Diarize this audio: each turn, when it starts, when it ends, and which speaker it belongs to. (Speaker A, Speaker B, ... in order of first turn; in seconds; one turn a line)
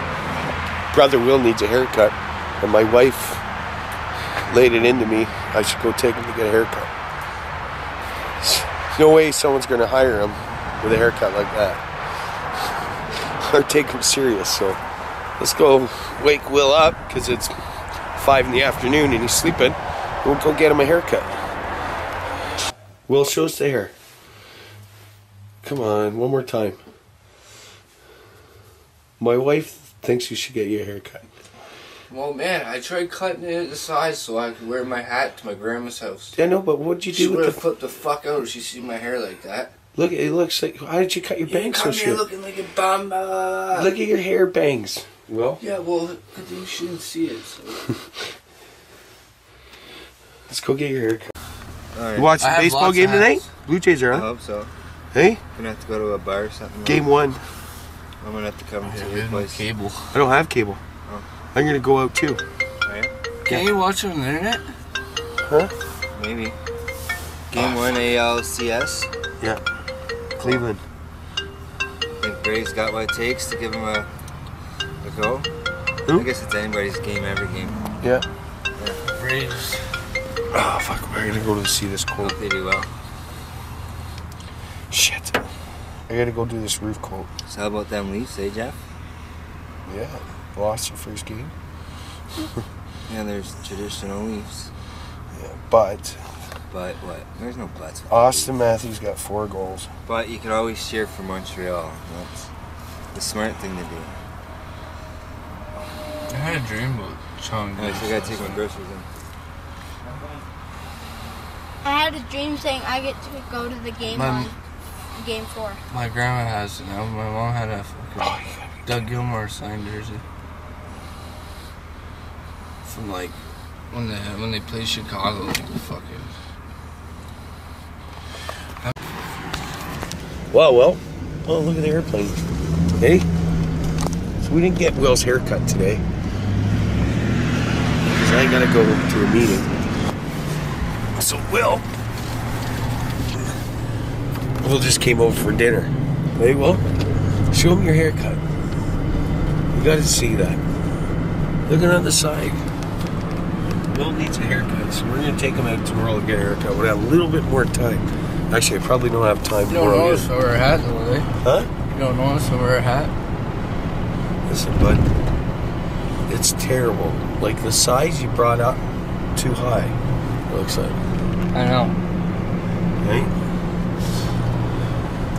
Speaker A: 0.9-3.4
Speaker A: 4.4-6.9
Speaker A: 8.4-14.8
Speaker A: 15.4-21.5
Speaker A: 23.1-23.9
Speaker A: 25.6-26.8
Speaker A: 29.2-31.3
Speaker B: 32.1-36.4
Speaker A: 36.3-37.6
Speaker B: 37.1-39.7
Speaker A: 39.9-42.2
Speaker B: 41.5-43.9
Speaker A: 43.7-45.6
Speaker B: 45.6-47.9
Speaker A: 50.5-51.3
Speaker C: 51.9-52.4
Speaker A: 52.1-54.2
Speaker B: 52.4-53.4
Speaker C: 54.1-54.7
Speaker A: 55.1-55.4
Speaker C: 55.5-57.1
Speaker A: 56.8-57.4
Speaker C: 58.2-59.6
Speaker B: 58.8-60.2
Speaker A: 60.1-60.8
Speaker A: 61.5-62.4
Speaker C: 62.8-63.1
Speaker B: 63.5-64.7
Speaker A: 65.4-65.7
Speaker C: 66.1-66.5
Speaker C: 67.5-69.1
Speaker A: 70.4-70.8
Speaker C: 72.2-74.1
Speaker C: 75.0-75.5
Speaker C: 76.1-77.8
Speaker A: 78.0-78.3
Speaker B: 79.0-79.8
Speaker A: 80.5-82.3
Speaker C: 82.2-82.9
Speaker A: 84.9-85.5
Speaker A: 86.1-87.3
Speaker C: 87.5-88.8
Speaker A: 89.8-91.5
Speaker C: 93.1-94.7
Speaker A: 95.3-96.5
Speaker C: 96.7-98.5
Speaker A: 98.1-99.9
Speaker C: 100.0-102.5
Speaker C: 103.1-104.2
Speaker B: 106.3-108.6
Speaker C: 107.8-109.1
Speaker D: 111.8-114.5
Speaker B: 114.1-114.5
Speaker D: 115.1-115.8
Speaker B: 115.9-120.2
Speaker A: 118.2-118.7
Speaker B: 122.9-123.3
Speaker B: 123.9-126.3
Speaker A: 130.5-132.4
Speaker A: 133.0-133.3
Speaker A: 134.4-136.0
Speaker A: 138.0-139.7
Speaker A: 141.1-141.9
Speaker A: 144.6-146.8
Speaker A: 147.5-148.4
Speaker A: 149.7-150.6
Speaker A: 151.7-152.7
Speaker A: 153.9-160.3
Speaker B: 159.7-161.3
Speaker A: 161.4-161.7
Speaker B: 161.9-163.1
Speaker A: 164.4-165.0
Speaker A: 166.3-168.8
Speaker A: 169.3-170.0
Speaker A: 170.5-171.0
Speaker B: 171.5-172.0
Speaker A: 173.0-173.3